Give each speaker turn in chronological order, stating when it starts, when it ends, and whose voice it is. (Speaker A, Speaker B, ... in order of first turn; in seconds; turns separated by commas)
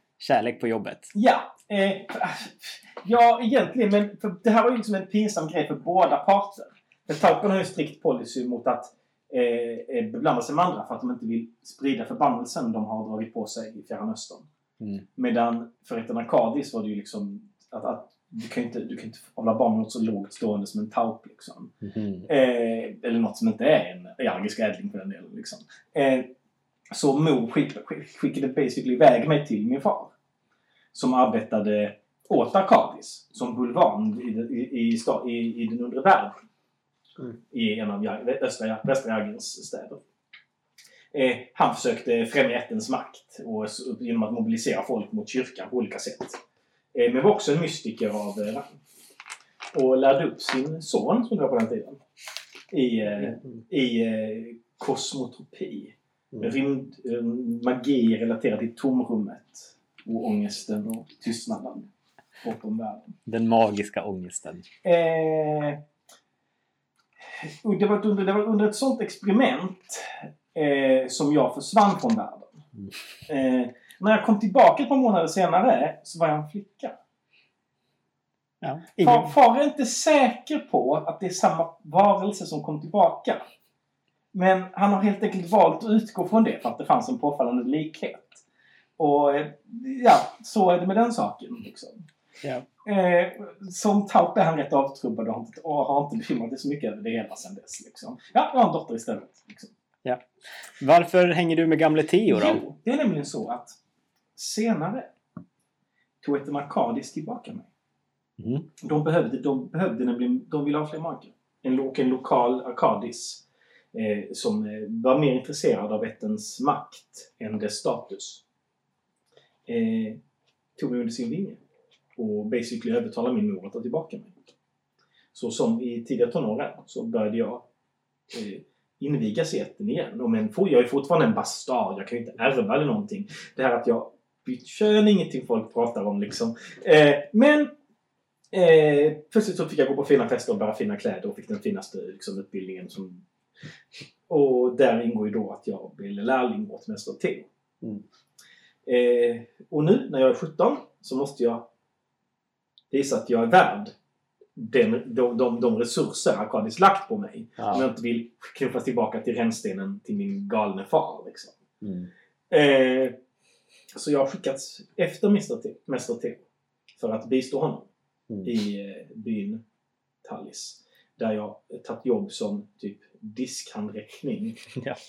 Speaker A: 0.2-1.1, Speaker B: 1.1-14.4, Speaker B: 15.2-21.7, Speaker A: 21.8-22.3, Speaker B: 22.3-26.3, Speaker B: 26.9-30.1, Speaker B: 30.9-36.3, Speaker B: 37.5-40.0, Speaker B: 41.1-46.4, Speaker B: 46.9-48.8, Speaker B: 49.7-52.0, Speaker B: 52.7-61.9, Speaker B: 62.4-63.1, Speaker A: 63.3-64.6, Speaker B: 64.8-65.8, Speaker B: 67.4-72.6, Speaker B: 73.3-77.0, Speaker A: 78.6-79.3, Speaker B: 79.0-83.4, Speaker B: 84.3-88.4, Speaker B: 89.0-92.0, Speaker B: 92.8-99.7, Speaker A: 100.8-102.6, Speaker B: 102.3-103.8, Speaker B: 104.3-105.1, Speaker B: 106.2-107.7, Speaker A: 108.4-108.7, Speaker B: 108.8-118.4, Speaker B: 119.7-120.2, Speaker B: 120.8-121.6, Speaker B: 122.2-124.3, Speaker B: 125.3-127.7, Speaker B: 128.3-137.7, Speaker B: 138.5-143.2, Speaker B: 144.3-147.5, Speaker B: 148.8-151.7, Speaker B: 152.9-153.9, Speaker B: 154.6-161.5, Speaker A: 157.6-157.8, Speaker A: 161.8-162.1, Speaker B: 162.5-163.2, Speaker B: 163.9-166.4, Speaker B: 167.0-167.9, Speaker B: 168.4-169.6, Speaker B: 170.2-174.6